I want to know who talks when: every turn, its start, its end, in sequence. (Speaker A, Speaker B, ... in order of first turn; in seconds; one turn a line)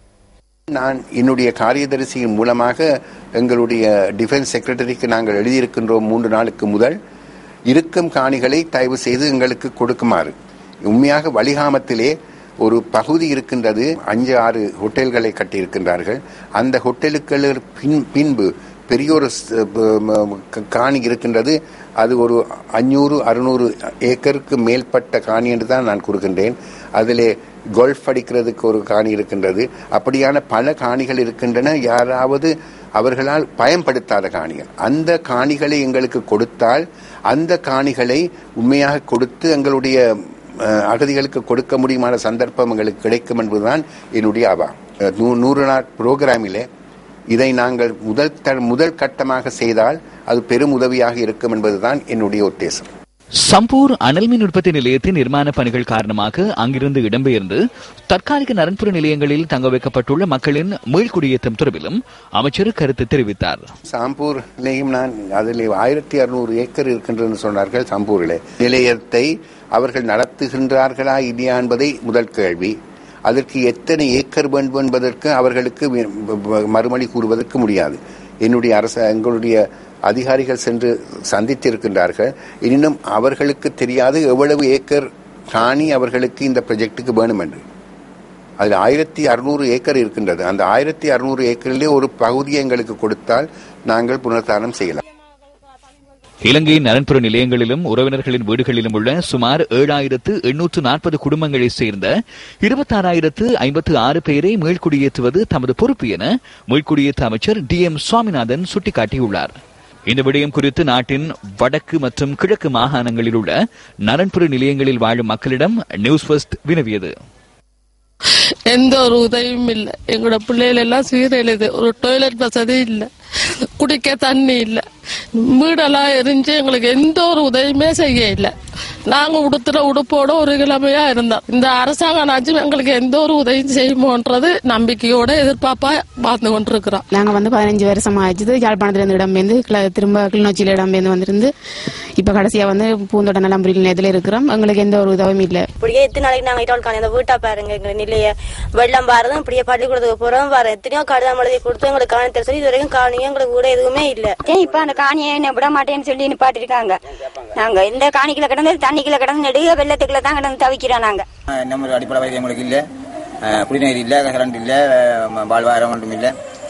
Speaker A: 0.7-2.8
Speaker A: 3.4-7.0
Speaker A: 7.7-10.3
Speaker A: 10.9-40.0
Speaker A: 40.6-46.6
Speaker A: 47.3-52.9
Speaker B: 53.5-63.6
Speaker A: 63.9-72.8
Speaker A: 73.3-87.6
Speaker A: 88.6-95.0
Speaker B: 96.4-102.1
Speaker B: 102.6-109.5
Speaker B: 110.1-113.5
Speaker B: 114.0-117.1
Speaker C: 118.7-123.1
Speaker C: 123.8-128.5
Speaker C: 129.0-137.0
Speaker D: 137.2-141.5
Speaker D: 142.2-145.7
Speaker E: 145.8-154.4
Speaker F: 154.4-157.0
Speaker F: 157.6-161.2
Speaker G: 161.6-162.8
Speaker G: 163.4-166.3